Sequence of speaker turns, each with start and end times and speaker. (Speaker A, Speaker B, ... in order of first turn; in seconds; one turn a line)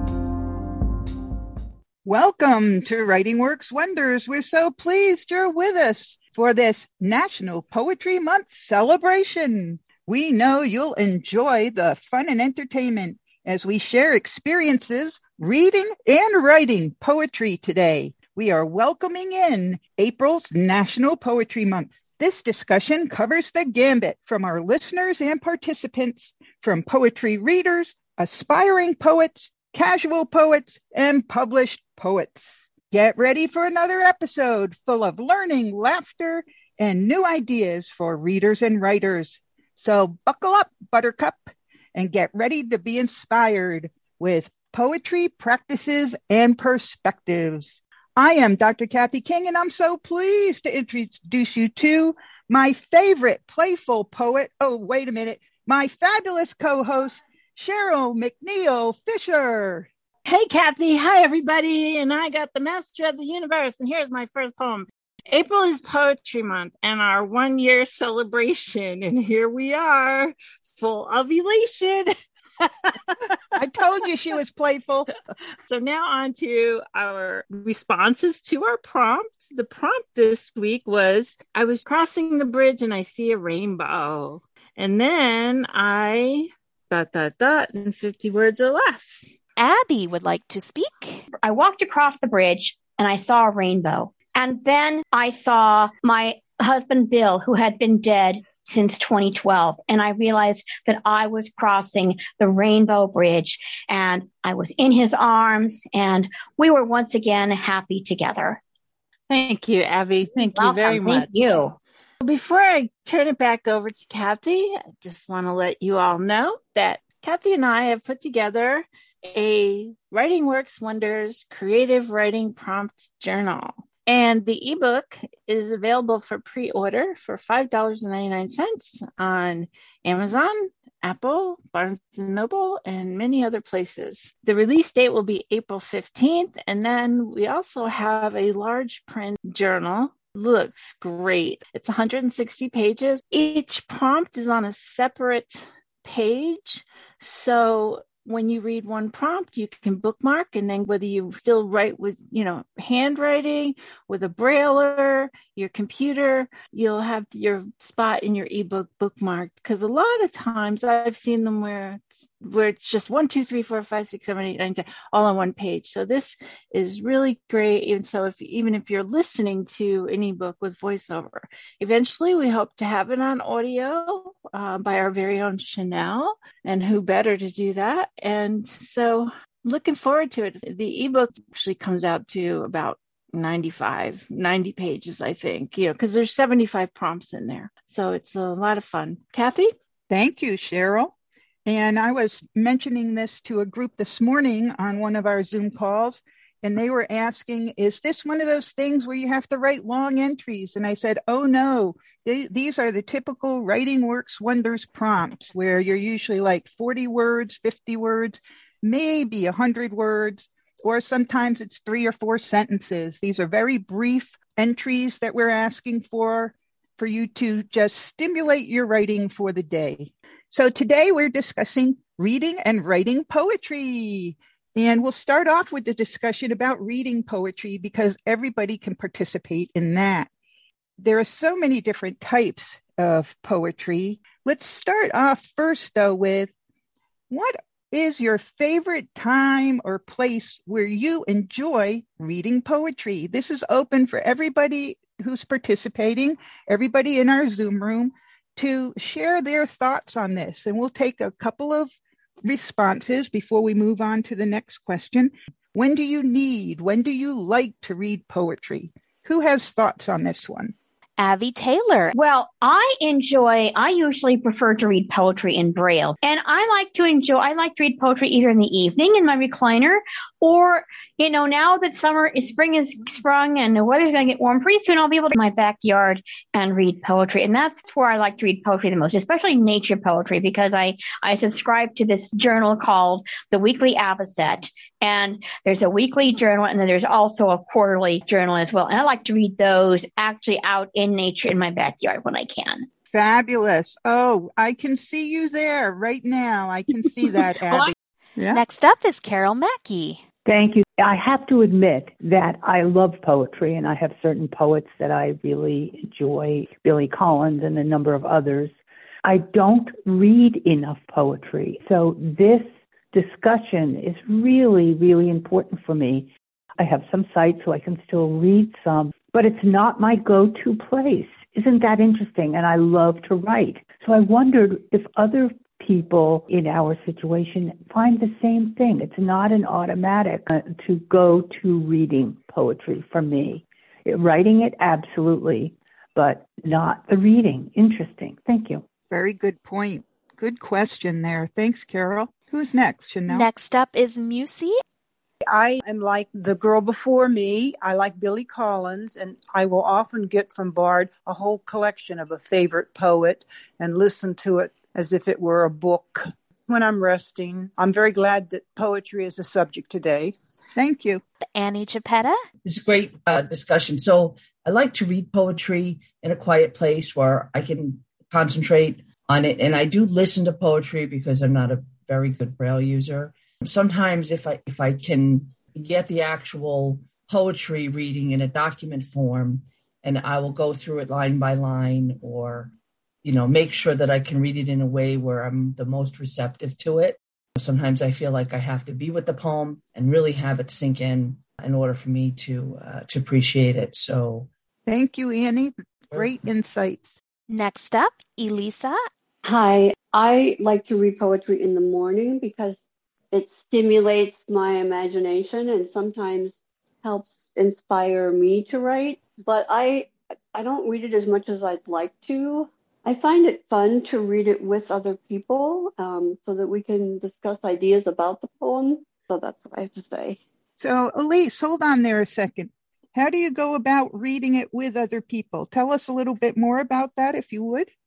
Speaker A: 2.0-59.9
Speaker B: 60.3-73.3
Speaker A: 73.6-75.1
Speaker B: 75.7-89.3
Speaker C: 89.6-91.3
Speaker D: 91.4-108.6
Speaker B: 109.3-111.3
Speaker D: 110.4-111.8
Speaker B: 112.2-189.7
Speaker A: 190.1-191.1
Speaker A: 191.7-230.3
Speaker A: 231.0-236.5
Speaker A: 237.3-260.7
Speaker C: 261.2-262.1
Speaker D: 262.1-292.9
Speaker A: 293.1-298.6
Speaker C: 298.5-300.2
Speaker E: 300.5-338.8
Speaker A: 339.1-343.5
Speaker C: 343.3-344.8
Speaker F: 345.4-360.4
Speaker A: 360.8-361.2
Speaker C: 361.6-362.4
Speaker G: 362.6-382.7
Speaker G: 383.2-394.5
Speaker A: 394.9-397.1
Speaker C: 397.5-399.0
Speaker H: 399.4-420.4
Speaker A: 420.8-427.9